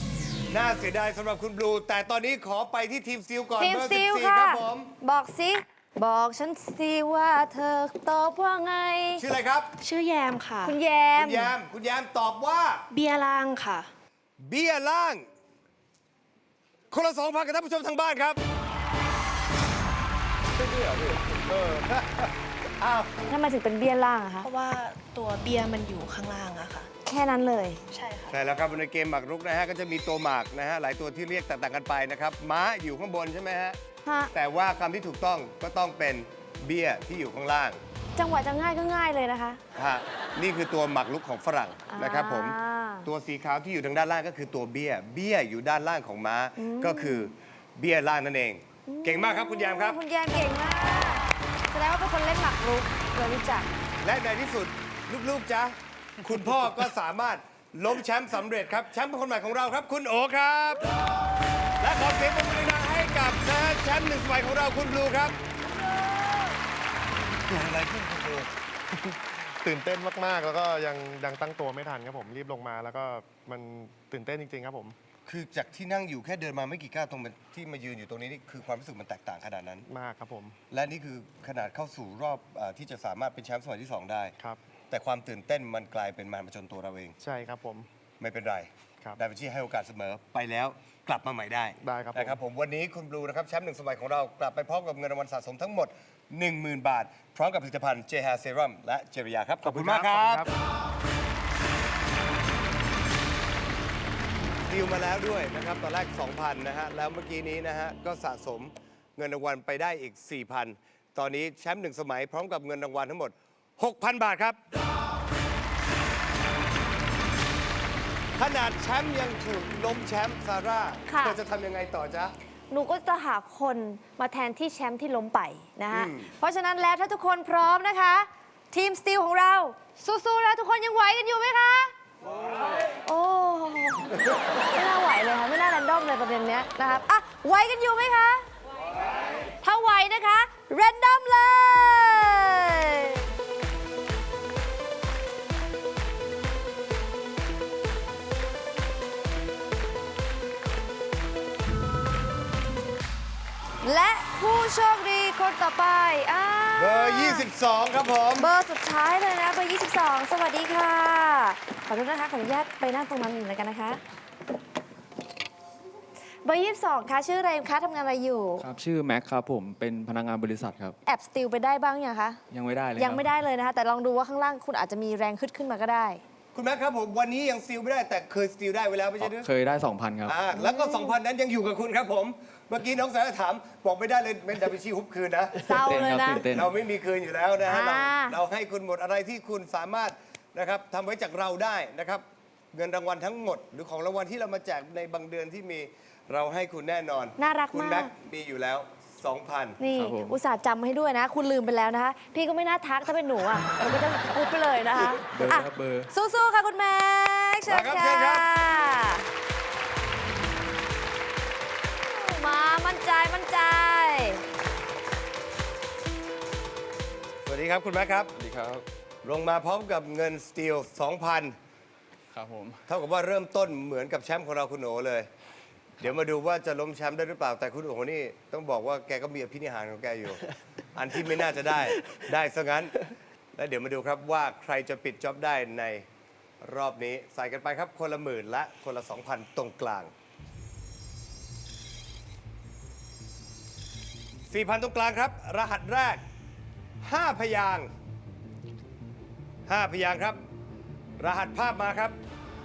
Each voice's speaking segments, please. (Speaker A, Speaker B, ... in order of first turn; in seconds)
Speaker A: 0.5-4.9, 9.2-9.7, 11.2-12.8, 14.4-15.2, 16.9-18.4, 20.6-23.1, 28.3-33.8, 34.3-37.8, 39.7-50.0, 54.0-60.8, 61.8-65.3, 67.5-68.5, 75.2-79.8, 80.7-84.3, 84.9-87.2, 88.2-100.5, 104.7-114.6, 118.3-122.3, 125.9-126.3, 156.7-158.5, 176.5-179.5, 180.2-185.8, 186.4-199.8, 207.7-208.5, 217.4-218.3, 219.2-221.5, 222.9-225.3, 226.0-230.4, 230.9-232.9, 233.5-236.0, 236.6-240.1, 244.5-246.2, 247.0-247.9, 249.7-250.4, 251.2-252.2
Speaker B: 3.6-9.2, 10.6-11.5, 23.3-24.5, 27.0-27.8, 34.0-34.3, 38.1-39.6, 41.9-43.1, 46.6-47.3, 48.9-53.7, 121.1-121.4, 122.7-131.9, 133.0-138.4, 139.6-143.2, 153.8-157.5, 158.3-164.0, 166.4-168.6, 171.0-172.4, 172.9-176.2, 180.5-181.2, 185.6-186.5, 187.6-188.4, 197.4-198.1, 199.8-209.2, 212.1-214.4
Speaker C: 9.8-10.7, 12.9-13.9, 24.4-26.9, 27.9-28.3
Speaker D: 69.6-74.9, 79.9-80.5, 87.2-87.9, 91.8-92.4, 99.6-100.5
Speaker E: 168.6-170.9, 172.5-173.2, 179.2-180.4, 185.7-186.7, 199.9-200.4, 205.2-206.1, 218.3-218.8, 222.3-222.8